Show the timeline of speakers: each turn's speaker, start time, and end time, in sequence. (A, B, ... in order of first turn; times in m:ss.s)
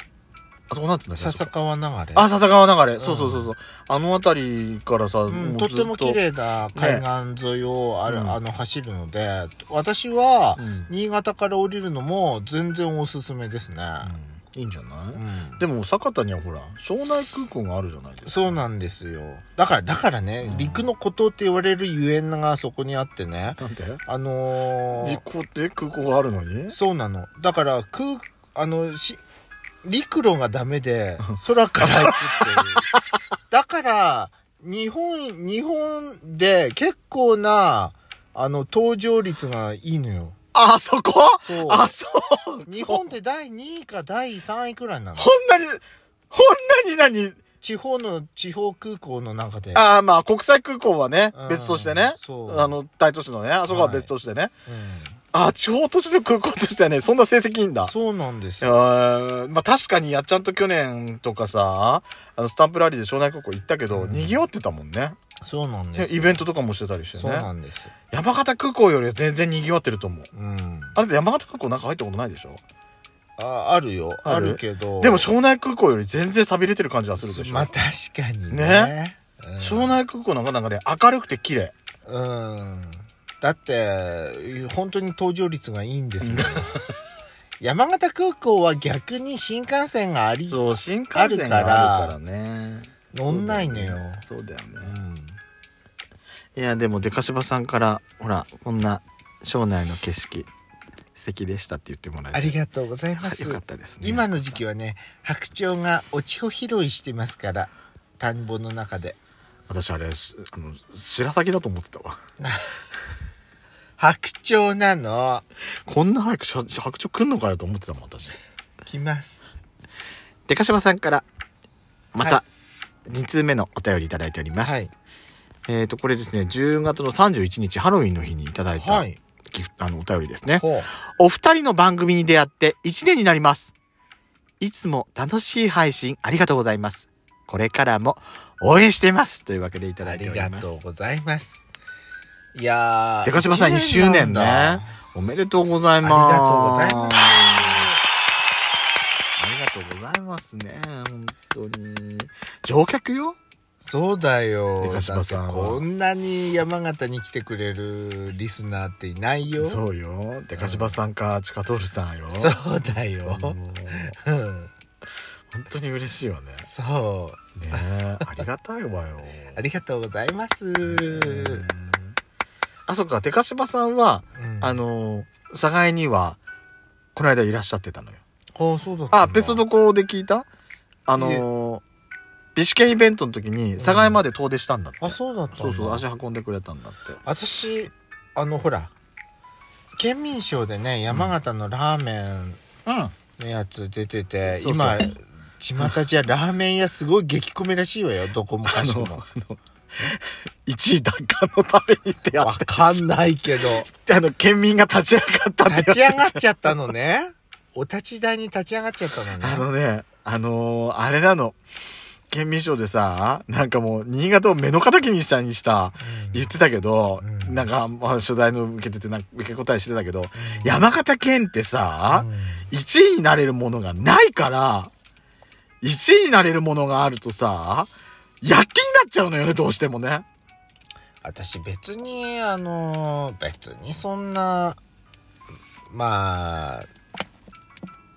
0:00.7-0:01.5 A
0:01.1-0:02.3 B
0:02.1-0:06.2 A
0:03.0-0:03.5 B
0:05.3-0:14.1 B
0:06.7-0:07.0 A
0:08.1-0:08.4 A
0:10.6-0:10.9 A
0:14.0-0:18.6 A
0:15.1-0:15.6 B
0:18.2-0:25.2 B
0:20.4-0:20.9 A
0:23.6-0:24.0 A
0:25.0-0:26.8 A
0:26.7-0:29.2 B
0:29.8-0:32.8 B
0:31.8-0:32.6 A
0:33.5-0:40.4 B
0:40.5-0:43.1 A
0:41.4-0:41.9 B
0:42.7-0:45.3 B
0:45.2-0:47.4 A
0:47.6-0:49.8 B
0:49.7-0:54.5 A
0:51.3-0:52.8 B
0:53.7-0:54.1 B
0:54.6-0:55.2 B
0:55.3-0:57.9 A
0:57.8-0:58.7 B
0:58.6-1:05.2 A
1:03.9-1:04.4 B
1:05.4-1:06.4 B
1:06.0-1:07.5 A
1:07.2-1:07.9 B
1:08.1-1:10.3 A
1:10.3-1:11.0 B
1:10.9-1:12.6 A
1:13.4-1:15.3 B
1:14.2-1:17.7 A
1:17.2-1:20.0 B
1:18.5-1:18.9 A
1:19.6-1:21.7 A
1:22.0-1:26.7 B
1:26.2-1:26.8 A
1:27.6-1:32.2 B
1:30.5-1:34.9 A
1:33.1-1:34.2 B
1:34.8-1:35.4 B
1:36.6-1:40.5 A
1:41.1-1:42.6 A
1:42.3-1:49.2 B
1:43.2-1:44.6 A
1:49.7-1:52.2 A
1:52.4-1:52.7 B
1:54.0-1:55.4 B
1:55.8-1:58.4 A
1:58.8-1:59.4 B
2:00.5-2:01.2 A
2:02.1-2:02.4 A
2:03.1-2:04.8 A
2:04.6-2:04.9 B
2:05.7-2:13.7 A
2:08.8-2:09.2 B
2:10.6-2:10.9 B
2:14.6-2:20.7 A
2:20.0-2:21.6 B
2:22.5-2:24.9 B
2:23.2-2:27.9 A
2:26.0-2:28.0 B
2:29.4-2:33.4 A
2:33.8-2:39.8 B
2:34.8-2:35.8 A
2:39.6-2:44.1 A
2:40.5-2:41.0 B
2:42.3-2:44.7 B
2:45.5-2:46.6 A
2:46.6-2:48.4 B
2:47.6-2:49.6 A
2:49.5-2:51.6 B
2:50.8-2:52.1 A
2:52.9-2:56.4 A
2:54.3-2:54.8 B
2:57.1-2:58.2 A
2:58.5-2:59.6 B
2:59.1-3:00.4 A
3:01.1-3:01.8 A
3:01.2-3:01.4 B
3:02.5-3:07.2 A
3:03.8-3:04.2 B
3:05.0-3:06.0 B
3:07.2-3:08.9 B
3:10.0-3:12.6 B
3:12.8-3:13.1 A
3:13.4-3:19.2 B
3:14.6-3:15.1 A
3:18.7-3:23.0 A
3:22.4-3:23.9 B
3:23.9-3:26.4 A
3:25.6-3:29.7 B
3:29.4-3:31.6 A
3:32.3-3:44.9 A
3:36.0-3:36.5 B
3:37.2-3:37.7 B
3:40.4-3:40.8 B
3:42.1-3:42.6 B
3:45.8-3:47.9 A
3:48.4-3:50.2 A
3:51.2-3:54.8 B
3:55.9-3:56.9 B